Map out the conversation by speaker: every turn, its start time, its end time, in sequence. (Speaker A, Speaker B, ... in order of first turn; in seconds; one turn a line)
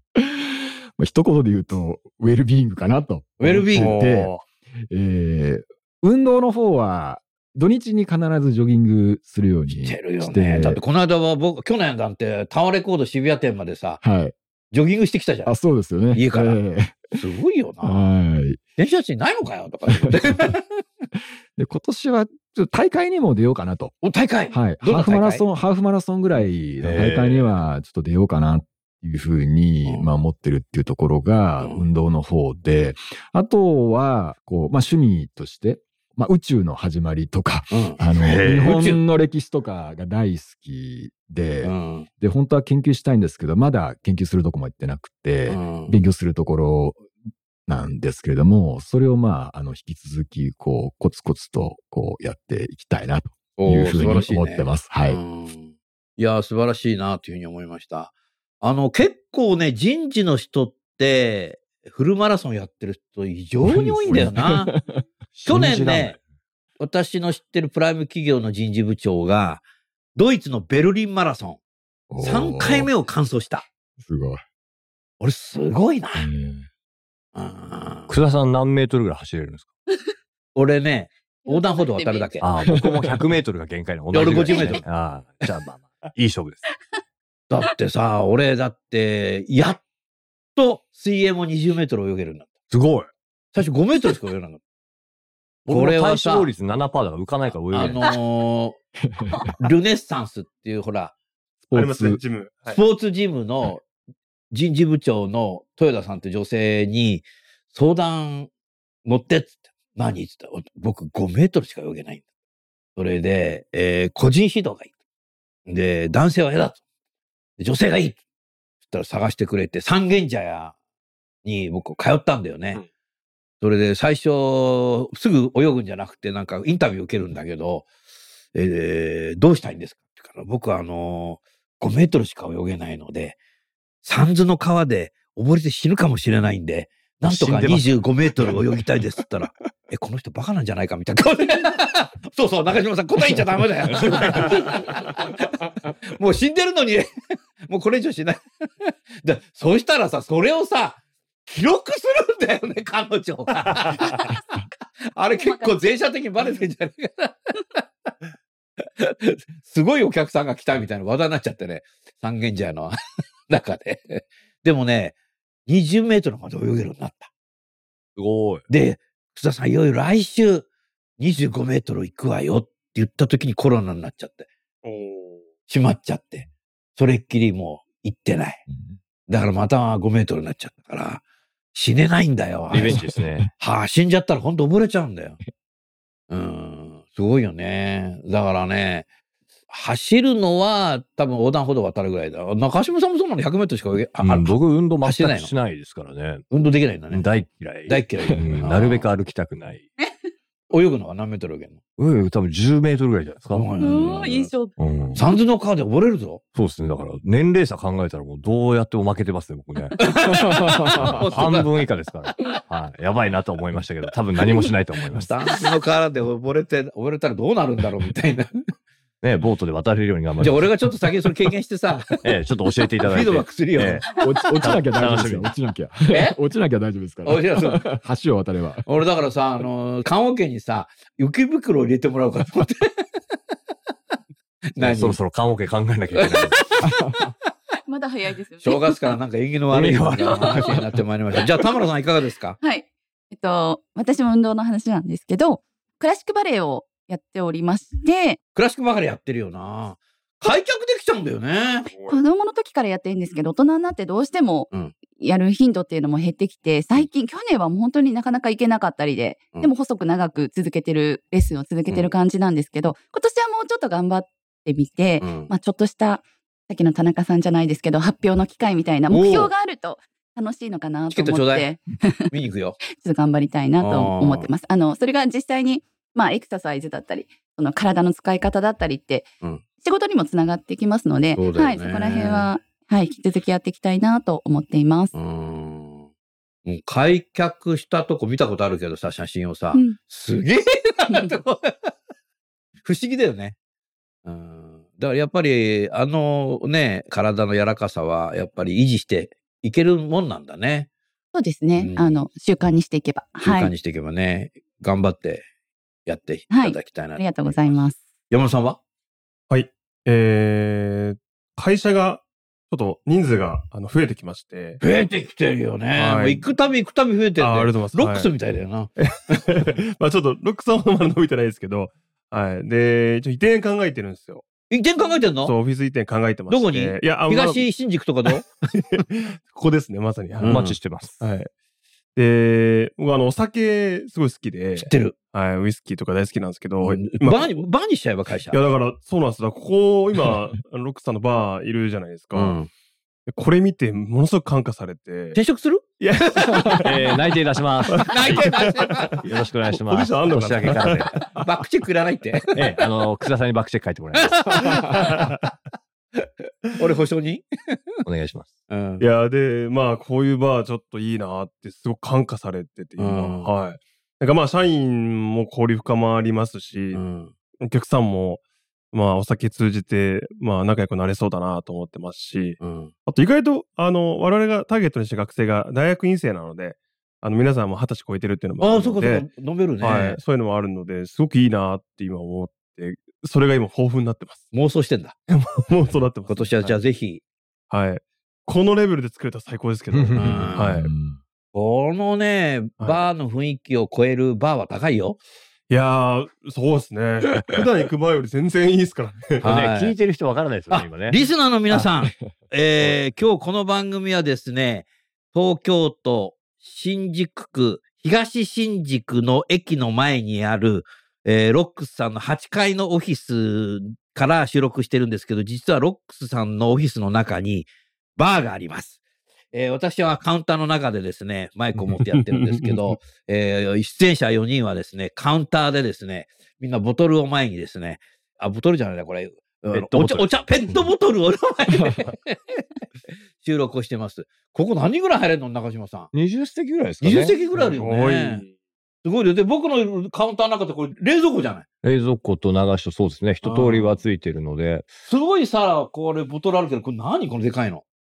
Speaker A: 0.2-10.8
Speaker B: 3.4-4.0
Speaker C: 3.7-4.5
Speaker B: 9.8-14.0
Speaker A: 14.0-14.3
Speaker B: 14.7-15.6
Speaker A: 15.4-17.2
Speaker B: 16.1-16.6
Speaker B: 17.1-18.1
Speaker A: 17.8-18.6
Speaker B: 18.8-20.8
Speaker A: 19.9-20.6
Speaker A: 21.6-23.9
Speaker B: 24.0-25.5
Speaker A: 24.5-47.1
Speaker D: 26.8-27.2
Speaker B: 26.9-27.4
Speaker B: 37.7-39.0
Speaker D: 38.2-38.8
Speaker B: 41.6-42.1
Speaker B: 45.5-46.0
Speaker A: 47.7-55.2
Speaker B: 53.6-64.7
Speaker A: 63.6-65.0
Speaker D: 64.1-64.3
Speaker D: 65.3-66.2
Speaker B: 65.5-66.2
Speaker B: 66.8-69.6
Speaker B: 70.2-71.6
Speaker A: 72.1-72.9
Speaker B: 72.2-73.7
Speaker A: 74.0-74.4
Speaker B: 75.2-76.3
Speaker A: 76.2-76.7
Speaker B: 77.3-78.1
Speaker D: 78.1-79.7
Speaker B: 80.5-82.5
Speaker E: 81.5-82.3
Speaker D: 82.4-86.7
Speaker A: 82.7-83.2
Speaker B: 84.1-84.8
Speaker E: 84.5-84.8
Speaker B: 87.5-89.8
Speaker B: 90.6-92.5
Speaker D: 92.7-93.1
Speaker B: 93.5-94.6
Speaker D: 95.7-98.0
Speaker B: 95.7-96.5
Speaker B: 97.7-98.8
Speaker A: 99.1-99.5
Speaker B: 99.6-101.1
Speaker A: 101.7-102.2
Speaker C: 101.7-102.8
Speaker B: 102.7-103.8
Speaker B: 104.5-108.5
Speaker B: 109.0-112.2
Speaker B: 113.0-114.9
Speaker B: 115.7-116.8
Speaker B: 117.6-118.2
Speaker B: 118.9-120.8
Speaker B: 121.5-122.8
Speaker B: 123.6-127.9
Speaker B: 128.6-133.4
Speaker B: 134.0-147.1
Speaker D: 137.2-137.9
Speaker B: 147.7-154.6
Speaker B: 155.1-157.8
Speaker E: 155.4-155.7
Speaker B: 158.8-162.9
Speaker B: 163.5-165.2
Speaker B: 165.7-167.3
Speaker D: 168.2-168.7
Speaker B: 168.7-170.7
Speaker B: 171.2-174.5
Speaker C: 174.8-175.4
Speaker B: 175.7-178.6
Speaker A: 178.7-179.0
Speaker B: 179.3-181.2
Speaker B: 181.7-185.4
Speaker D: 182.7-183.5
Speaker A: 182.8-183.5
Speaker B: 186.3-189.1
Speaker B: 189.7-195.5
Speaker D: 194.2-196.4
Speaker B: 196.5-197.3
Speaker D: 197.1-199.9
Speaker B: 197.9-199.1
Speaker B: 200.7-201.8
Speaker D: 202.0-203.7
Speaker B: 203.5-204.5
Speaker E: 203.8-204.8
Speaker D: 204.8-205.2
Speaker B: 205.2-206.4
Speaker D: 206.6-210.0
Speaker B: 210.0-212.6
Speaker A: 210.3-211.2
Speaker D: 210.9-215.3
Speaker B: 215.1-218.6
Speaker D: 219.2-220.7
Speaker B: 220.4-222.4
Speaker D: 222.2-225.5
Speaker B: 223.0-224.2
Speaker A: 224.2-228.9
Speaker B: 226.1-226.4
Speaker B: 227.3-227.8
Speaker B: 228.9-233.1
Speaker B: 234.8-235.2
Speaker D: 234.8-236.6
Speaker B: 236.2-237.3
Speaker A: 236.8-237.2
Speaker E: 237.9-239.1
Speaker B: 238.6-242.6
Speaker D: 239.7-240.9
Speaker E: 240.2-240.7
Speaker E: 242.6-248.4
Speaker B: 248.6-251.9
Speaker C: 251.9-252.2
Speaker E: 252.1-272.3
Speaker B: 265.2-265.5
Speaker B: 269.1-269.5
Speaker B: 271.1-271.7
Speaker B: 272.3-272.8
Speaker E: 272.8-279.3
Speaker B: 273.8-274.5
Speaker E: 279.8-285.1
Speaker B: 281.4-282.5
Speaker B: 285.1-286.1
Speaker B: 286.7-291.9
Speaker E: 291.1-291.3
Speaker B: 292.9-293.6
Speaker B: 294.2-300.9
Speaker E: 301.3-303.7
Speaker B: 301.8-302.2
Speaker B: 303.4-305.5
Speaker B: 306.1-307.8
Speaker E: 306.5-308.0
Speaker B: 308.3-308.8
Speaker C: 309.5-314.8
Speaker B: 314.8-319.4
Speaker C: 316.0-316.4
Speaker C: 317.4-318.3
Speaker C: 319.0-324.4
Speaker B: 324.7-325.5
Speaker C: 325.4-327.6
Speaker B: 326.5-328.5
Speaker C: 328.7-331.5
Speaker B: 330.4-330.8
Speaker D: 330.4-331.2
Speaker C: 332.1-337.5
Speaker B: 334.8-335.1
Speaker B: 336.8-338.6
Speaker C: 338.5-342.6
Speaker B: 342.4-342.7
Speaker C: 343.3-345.4
Speaker B: 345.4-347.0
Speaker C: 346.0-347.2
Speaker D: 346.8-348.5
Speaker C: 347.9-349.1
Speaker B: 348.0-349.4
Speaker D: 349.2-351.1
Speaker C: 349.7-351.4
Speaker B: 351.2-352.8
Speaker D: 352.5-354.6
Speaker B: 354.2-355.3
Speaker C: 354.8-355.4
Speaker B: 356.2-358.0
Speaker D: 358.1-358.6
Speaker B: 358.7-359.0
Speaker C: 359.0-367.0
Speaker B: 363.0-363.5
Speaker B: 366.9-367.3
Speaker C: 367.6-379.3
Speaker B: 372.6-372.9
Speaker B: 378.6-380.2
Speaker C: 379.8-384.5
Speaker B: 384.5-385.2
Speaker C: 385.3-386.8
Speaker B: 386.3-387.2
Speaker C: 387.7-390.9
Speaker B: 390.2-390.8
Speaker A: 390.2-391.2
Speaker B: 391.5-395.2
Speaker C: 395.7-399.4
Speaker B: 399.4-399.9
Speaker D: 399.4-401.9
Speaker B: 400.7-419.0
Speaker B: 419.5-432.7
Speaker C: 421.9-423.0
Speaker D: 429.7-430.3
Speaker B: 433.4-436.1
Speaker D: 436.1-437.4
Speaker B: 437.0-438.4
Speaker C: 437.6-438.5
Speaker B: 439.0-441.7
Speaker D: 441.8-444.9
Speaker B: 443.4-444.0
Speaker B: 445.1-447.8